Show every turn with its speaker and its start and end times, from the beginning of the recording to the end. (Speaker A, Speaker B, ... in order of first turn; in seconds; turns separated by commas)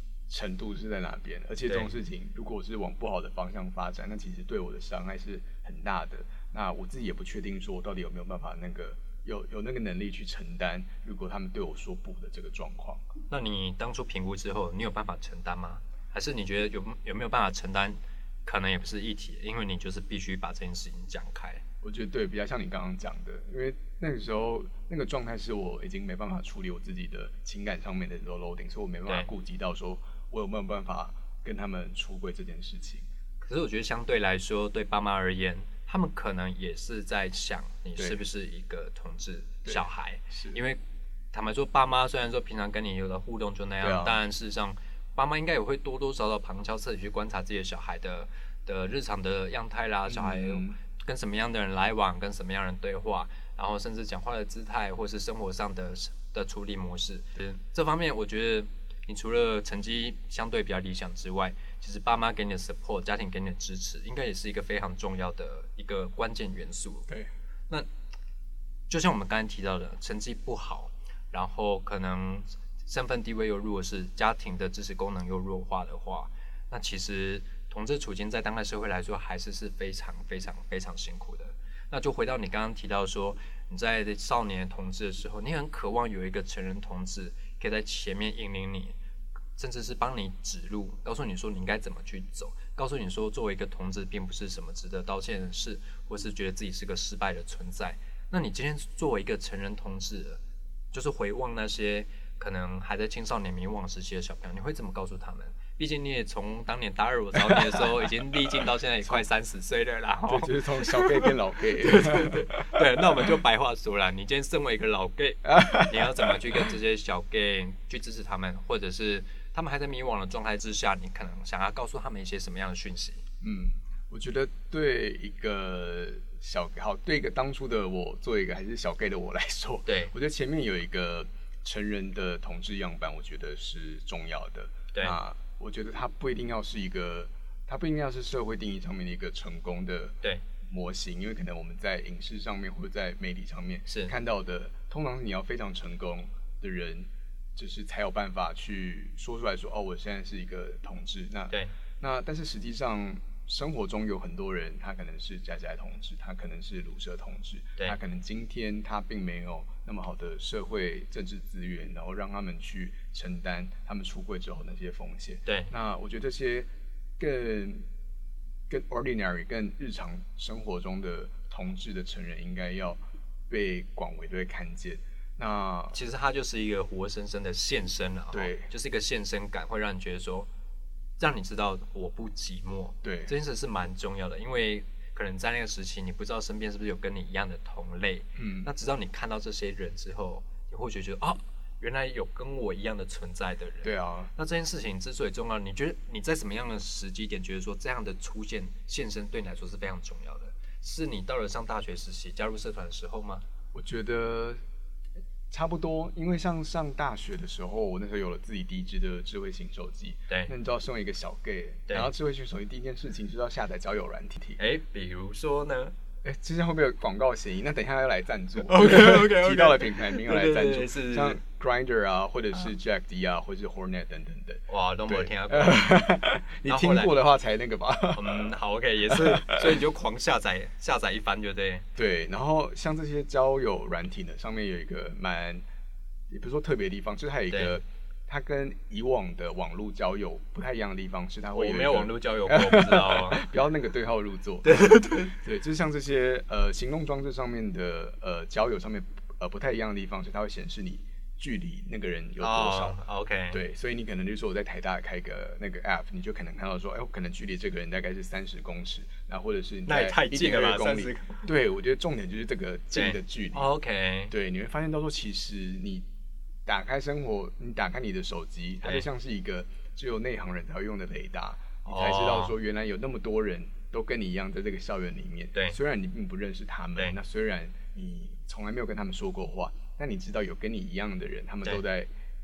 Speaker A: 0.3-13.0, Speaker B: 1.7-1.9, Speaker B: 13.3-21.6, Speaker A: 21.8-33.1, Speaker B: 33.4-40.8, Speaker A: 39.6-40.6, Speaker B: 41.3-67.1, Speaker A: 43.8-44.2, Speaker A: 50.0-50.8, Speaker B: 68.9-89.0, Speaker B: 89.6-100.4, Speaker B: 100.9-123.2, Speaker A: 107.4-107.9, Speaker A: 110.3-113.3, Speaker A: 115.5-116.7, Speaker A: 123.4-166.7, Speaker B: 129.9-130.1, Speaker B: 143.9-144.1, Speaker B: 165.5-165.7, Speaker A: 167.2-167.8, Speaker A: 168.7-176.0, Speaker B: 175.9-180.5, Speaker A: 178.3-178.7, Speaker B: 181.2-203.4, Speaker A: 183.0-183.3, Speaker A: 188.4-188.7, Speaker A: 193.8-194.3, Speaker A: 203.7-204.6, Speaker A: 205.5-214.6, Speaker B: 214.6-215.9, Speaker A: 216.2-228.5, Speaker B: 218.6-221.4, Speaker B: 224.7-226.1, Speaker B: 226.6-227.1, Speaker B: 228.1-231.9, Speaker A: 229.1-229.8, Speaker A: 232.0-235.6, Speaker A: 236.3-253.0, Speaker B: 237.5-237.8, Speaker B: 241.6-243.5, Speaker B: 244.7-245.3, Speaker B: 252.4-253.6, Speaker A: 253.5-263.7, Speaker B: 259.9-261.5, Speaker B: 262.9-264.3, Speaker A: 264.3-266.1, Speaker A: 266.7-282.1, Speaker B: 271.9-272.5